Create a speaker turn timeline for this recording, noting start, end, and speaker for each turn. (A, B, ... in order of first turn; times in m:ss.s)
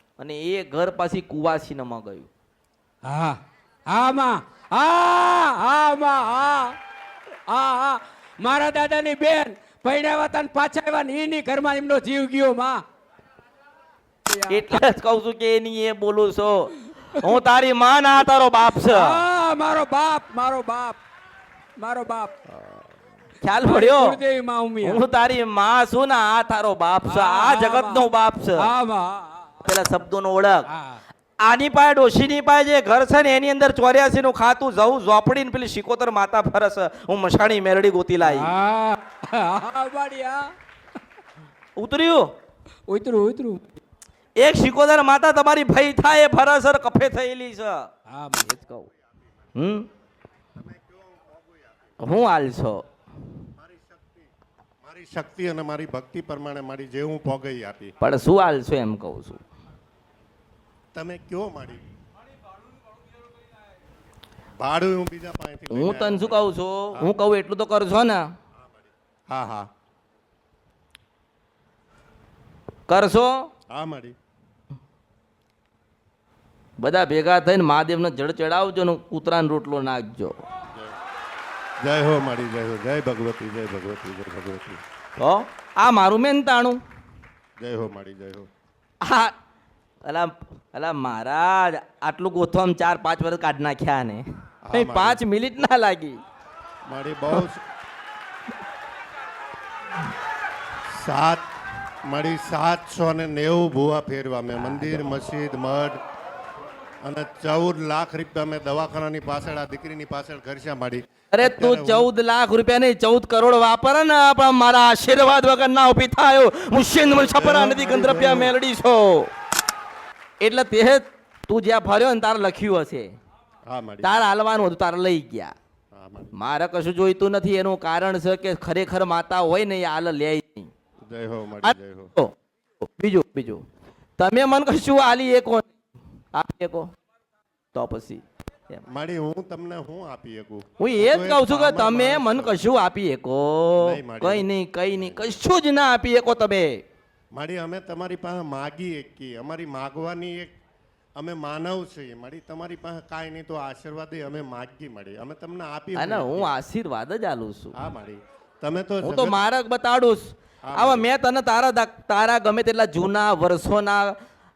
0:00.2-0:02.3 A
0:03.0-0:06.8 B
0:07.5-0:12.8 B
0:14.3-0:14.8 B
0:14.5-0:19.2 A
0:17.1-0:17.4 B
0:18.8-0:21.0 B
0:21.8-0:22.4 B
0:23.4-0:24.2 A
0:23.6-0:25.0 B
0:24.8-0:28.7 A
0:27.0-0:28.1 B
0:28.6-0:29.6 B
0:29.6-0:30.7 A
0:30.7-0:31.0 B
0:31.4-0:38.5 A
0:38.2-0:40.5 B
0:41.8-0:42.3 A
0:42.9-0:43.8 B
0:44.4-0:47.9 A
0:48.1-0:48.5 B
0:48.4-0:48.9 A
0:49.6-0:49.9 A
0:50.5-0:51.9 C
0:52.0-0:52.8 A
0:53.6-0:54.3 C
0:54.8-0:57.9 C
0:58.0-0:59.4 A
1:00.9-1:01.8 C
1:04.6-1:07.1 C
1:05.7-1:08.3 A
1:08.6-1:09.7 C
1:12.9-1:13.5 A
1:13.7-1:14.2 C
1:16.8-1:20.4 A
1:21.8-1:24.8 C
1:25.2-1:26.8 A
1:27.6-1:28.5 C
1:29.0-1:29.3 A
1:30.0-1:36.2 A
1:34.6-1:35.2 C
1:36.9-1:37.6 C
1:40.9-1:41.5 C
1:42.1-1:46.0 C
1:44.6-1:45.1 A
1:47.0-1:52.1 C
1:51.3-1:59.3 A
1:57.0-1:58.6 C
2:00.4-2:03.1 A
2:03.7-2:04.2 C
2:04.0-2:05.5 A
2:05.9-2:06.4 C
2:06.3-2:10.7 A
2:11.1-2:12.1 C
2:11.6-2:13.6 A
2:14.2-2:15.7 A
2:16.3-2:16.9 A
2:17.7-2:18.8 A
2:18.9-2:22.6 C
2:20.8-2:26.8 A
2:23.8-2:25.3 C
2:27.3-2:30.5 C
2:31.2-2:36.5 C
2:36.0-2:37.8 A
2:37.8-2:39.4 C
2:39.0-2:44.2 A
2:40.7-2:41.1 C